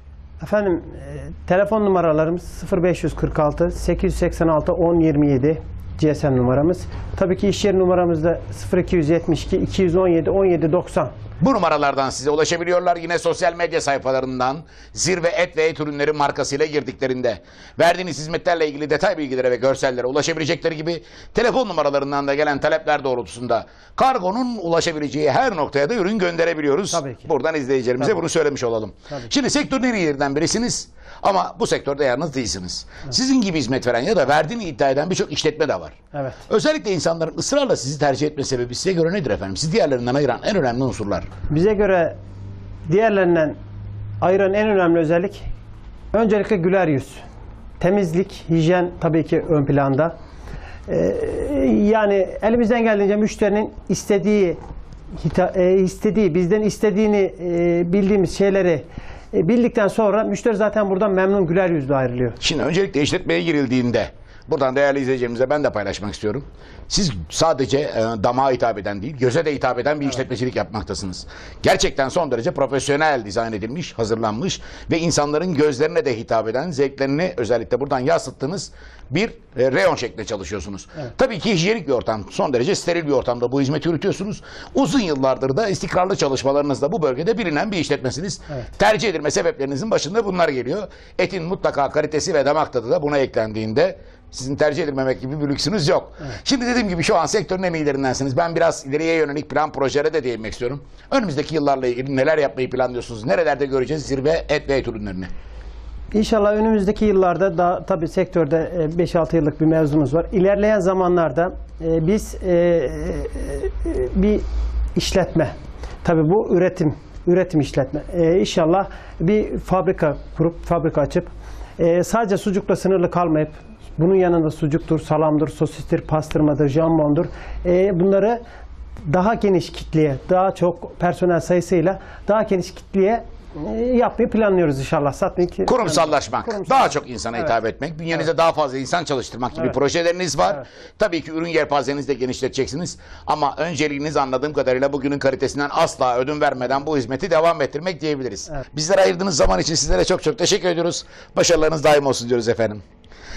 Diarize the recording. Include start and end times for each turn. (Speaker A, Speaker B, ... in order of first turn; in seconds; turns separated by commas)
Speaker A: 0.4-11.1, Speaker B: 11.4-36.0, Speaker A: 26.9-27.3, Speaker A: 36.1-36.4, Speaker B: 36.5-41.3, Speaker A: 41.5-42.1, Speaker A: 42.9-43.6, Speaker A: 44.2-45.5, Speaker A: 46.1-47.2, Speaker A: 47.8-50.1, Speaker A: 50.9-54.6, Speaker A: 55.2-62.4, Speaker B: 62.4-105.3, Speaker A: 106.1-114.4, Speaker A: 114.9-128.4, Speaker A: 129.1-137.5, Speaker B: 135.7-152.8